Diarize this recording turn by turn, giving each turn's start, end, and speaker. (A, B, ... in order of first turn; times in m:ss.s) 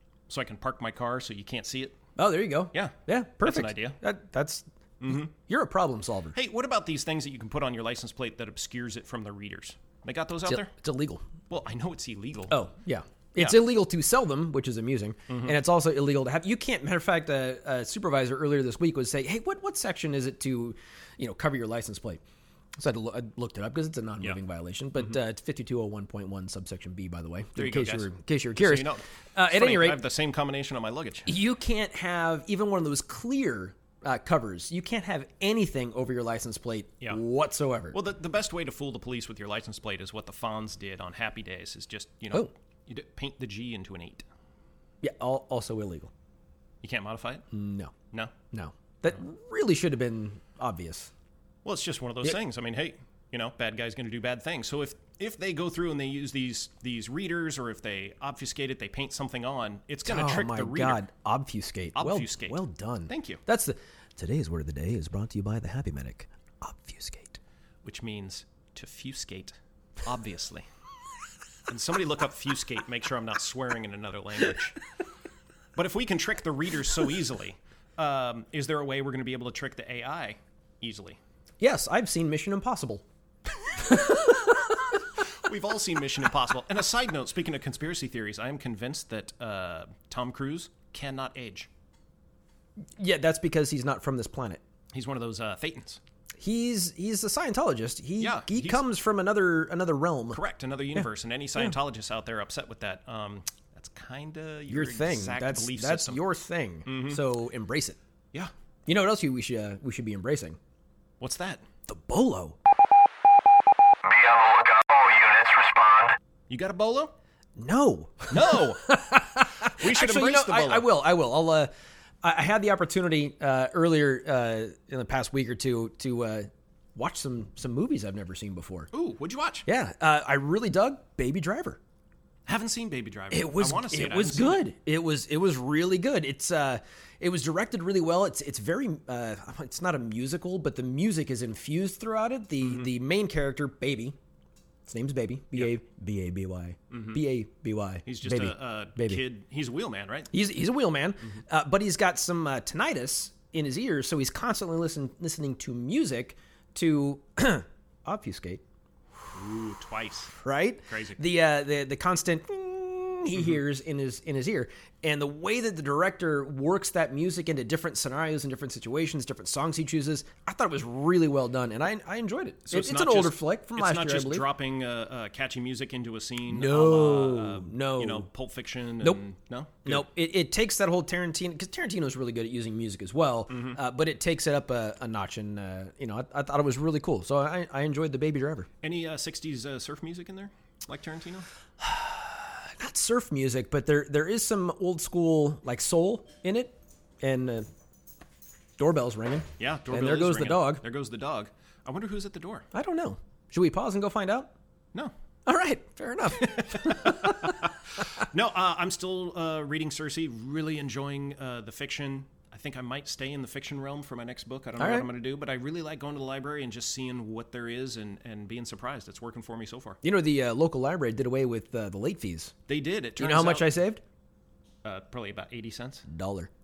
0:00.3-0:02.0 A
0:02.2-0:06.4 B
0:02.7-0:04.0 A
0:05.0-0:05.3 A
0:06.3-0:10.7 A
0:10.5-0:11.2 B
0:11.5-0:12.6 A
0:12.5-0:22.2 B
0:13.4-0:13.6 A
0:15.3-0:15.6 A
0:22.8-0:30.0 B
0:27.6-0:31.3 A
0:31.3-0:38.0 B
0:37.9-0:44.3 A
0:45.0-0:46.1 B
0:46.8-0:47.5 A
0:47.5-0:47.9 B
0:48.5-0:51.1 B
0:51.6-1:01.0 A
1:00.0-1:07.4 B
1:01.9-1:02.6 A
1:03.1-1:03.4 A
1:07.8-1:10.7 A
1:11.7-1:14.8 A
1:15.8-1:21.2 A
1:21.6-1:23.0 B
1:23.7-1:24.8 B
1:25.4-1:31.7 A
1:33.0-1:34.6 B
1:34.9-1:36.0 A
1:36.4-1:40.4 B
1:38.2-1:38.9 A
1:40.3-1:46.2 A
1:44.7-1:48.0 B
1:46.9-1:47.2 A
1:48.9-1:50.6 B
1:51.2-1:51.6 A
1:51.9-1:52.6 B
1:54.0-1:56.1 C
1:56.5-1:57.1 A
1:57.6-2:01.7 B
1:58.3-1:58.9 A
1:59.7-2:00.9 A
2:02.2-2:08.9 B
2:08.9-2:09.7 A
2:09.7-2:11.8 B
2:12.5-2:14.6 A
2:13.3-2:24.2 B
2:22.6-2:22.9 A
2:24.9-2:29.2 B
2:26.9-2:27.2 A
2:28.1-2:30.3 A
2:30.3-2:38.6 B
2:39.3-2:40.3 A
2:40.3-2:54.5 B
2:40.9-2:41.2 A
2:52.7-3:00.1 A
2:56.5-2:58.3 B
2:59.8-3:08.7 B
3:03.5-3:03.8 A
3:08.8-3:11.5 A
3:11.8-3:17.7 B
3:18.8-3:20.8 B
3:19.6-3:22.7 A
3:22.7-3:24.5 B
3:25.5-3:27.6 B
3:26.4-3:40.0 A
3:34.8-3:35.1 B
3:40.0-3:42.5 B
3:42.7-3:43.7 A
3:43.2-3:44.0 B
3:44.8-3:46.1 A
3:46.1-3:46.5 B